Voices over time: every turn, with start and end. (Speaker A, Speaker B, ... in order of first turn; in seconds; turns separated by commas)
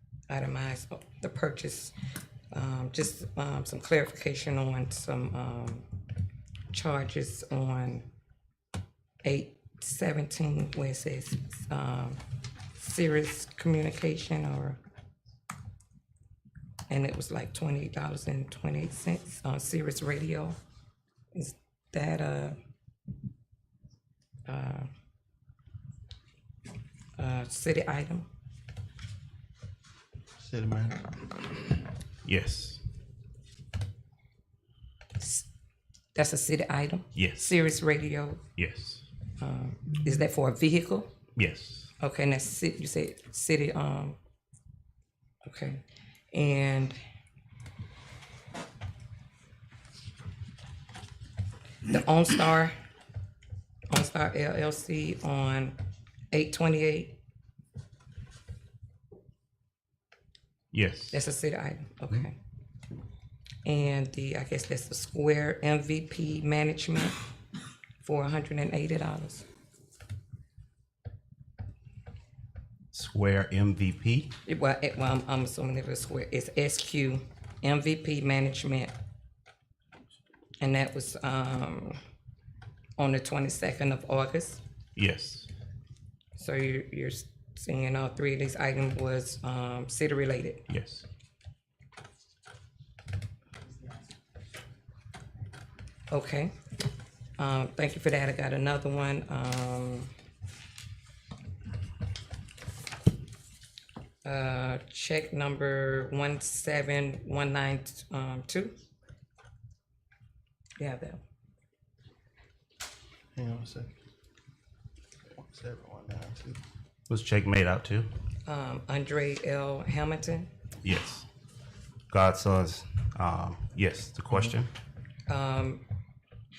Speaker A: 0.3-1.9, Speaker A: 2.5-5.9, Speaker A: 6.7-8.0, Speaker A: 9.2-12.2, Speaker A: 12.8-14.8, Speaker A: 16.9-20.6, Speaker A: 21.3-22.6, Speaker A: 24.5-24.9, Speaker A: 27.2-28.3, Speaker B: 30.4-31.5, Speaker C: 32.2-32.8, Speaker A: 35.2-35.5, Speaker A: 36.1-38.4, Speaker C: 37.1-37.6, Speaker C: 38.6-39.0, Speaker A: 39.4-41.1, Speaker C: 41.3-41.9, Speaker A: 42.0-44.2, Speaker A: 45.4-47.0, Speaker A: 51.8-52.7, Speaker A: 53.9-55.8, Speaker A: 56.3-57.2, Speaker C: 60.7-61.2, Speaker A: 61.1-62.3, Speaker A: 63.6-67.2, Speaker A: 68.0-69.5, Speaker C: 72.9-74.3, Speaker A: 74.5-78.9, Speaker A: 80.6-82.0, Speaker A: 83.0-84.6, Speaker C: 85.0-85.5, Speaker A: 86.3-90.6, Speaker C: 90.7-91.0, Speaker A: 96.1-96.5, Speaker A: 97.4-100.1, Speaker A: 104.2-108.7, Speaker A: 110.8-111.2, Speaker B: 113.3-113.9, Speaker B: 115.3-116.6, Speaker C: 117.1-118.1, Speaker A: 118.5-120.5, Speaker C: 120.8-121.2, Speaker C: 122.1-124.7, Speaker A: 125.3-125.8